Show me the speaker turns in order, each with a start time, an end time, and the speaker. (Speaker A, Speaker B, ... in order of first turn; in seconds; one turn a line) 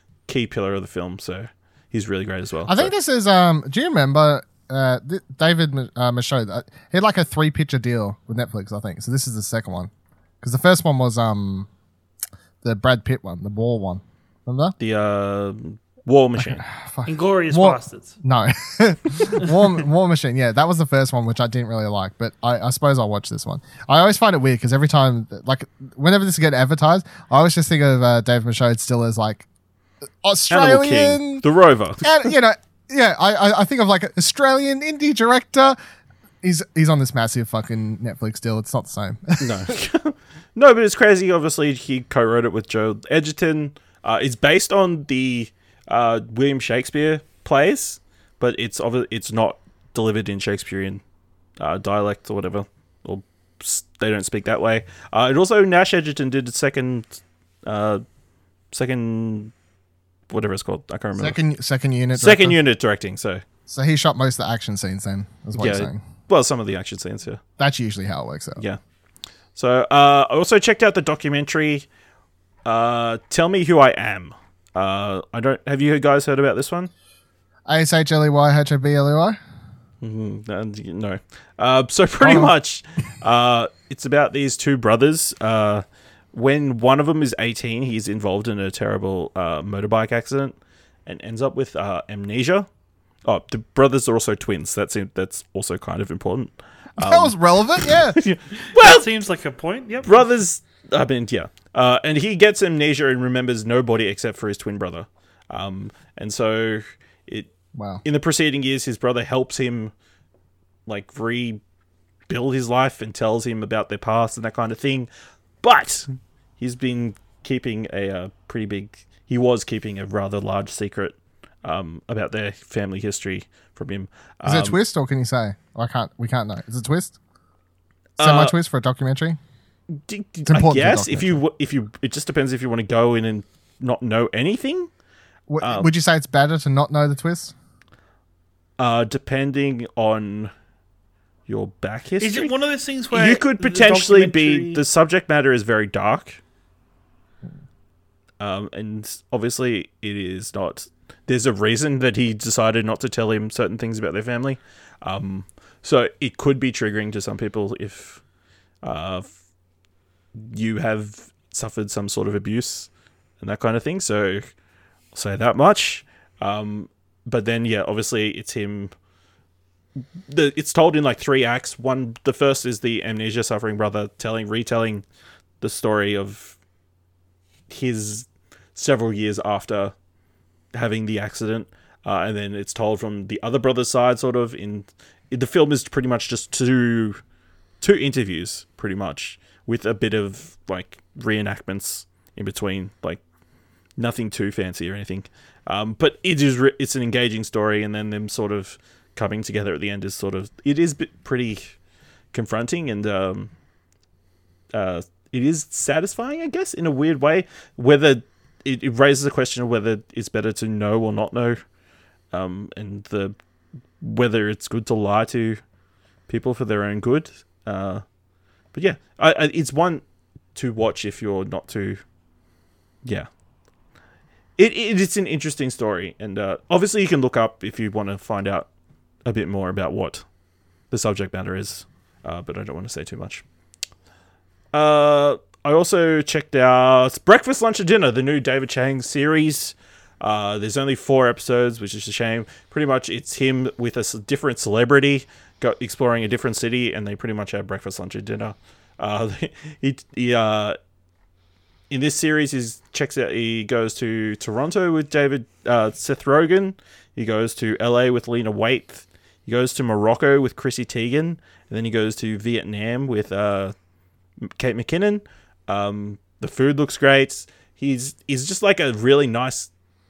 Speaker A: 0.3-2.9
Speaker B: 2.7-11.7
Speaker B: 12.6-14.8
Speaker A: 14.8-16.6
Speaker B: 16.4-29.4
Speaker C: 17.1-18.1
Speaker B: 30.2-31.4
Speaker A: 30.5-32.2
Speaker B: 32.0-35.8
Speaker B: 36.4-39.7
Speaker A: 39.4-51.0
Speaker A: 51.6-58.0
Speaker A: 58.7-59.5
Speaker A: 60.3-61.4
Speaker B: 61.1-62.6
Speaker A: 62.1-63.4
Speaker B: 63.7-66.0
Speaker A: 65.6-67.4
Speaker B: 67.6-68.6
Speaker A: 69.5-71.9
Speaker A: 72.6-76.9
Speaker B: 77.7-79.4
Speaker A: 80.0-92.7
Speaker B: 82.2-82.5
Speaker A: 93.2-99.1
Speaker B: 97.0-98.2
Speaker C: 98.7-100.2
Speaker A: 100.0-107.5
Speaker B: 107.7-108.0
Speaker A: 108.0-109.9
Speaker A: 110.9-111.6
Speaker A: 112.3-115.1
Speaker A: 115.6-124.8
Speaker B: 124.4-127.2
Speaker A: 128.2-128.5
Speaker B: 128.2-129.4
Speaker A: 130.1-134.9
Speaker B: 130.5-131.4
Speaker B: 135.5-137.5
Speaker A: 135.6-135.9
Speaker A: 138.8-140.5
Speaker A: 141.5-142.5
Speaker C: 142.2-144.8
Speaker A: 143.1-146.4
Speaker A: 148.4-158.2
Speaker A: 158.8-159.4
Speaker A: 160.3-164.5
Speaker A: 165.1-168.9
Speaker A: 170.3-175.0
Speaker A: 175.6-176.6
Speaker A: 177.7-179.9
Speaker A: 180.7-187.2
Speaker A: 187.8-193.2
Speaker A: 194.0-201.8
Speaker A: 202.3-203.5
Speaker A: 204.7-211.6
Speaker A: 212.3-213.3
Speaker A: 214.0-215.6
Speaker A: 216.3-218.0
Speaker A: 218.7-220.0
Speaker A: 220.5-222.0
Speaker A: 224.6-228.7
Speaker A: 229.2-230.2
Speaker A: 230.9-233.4
Speaker A: 234.7-250.8
Speaker A: 251.9-263.7
Speaker A: 264.4-269.7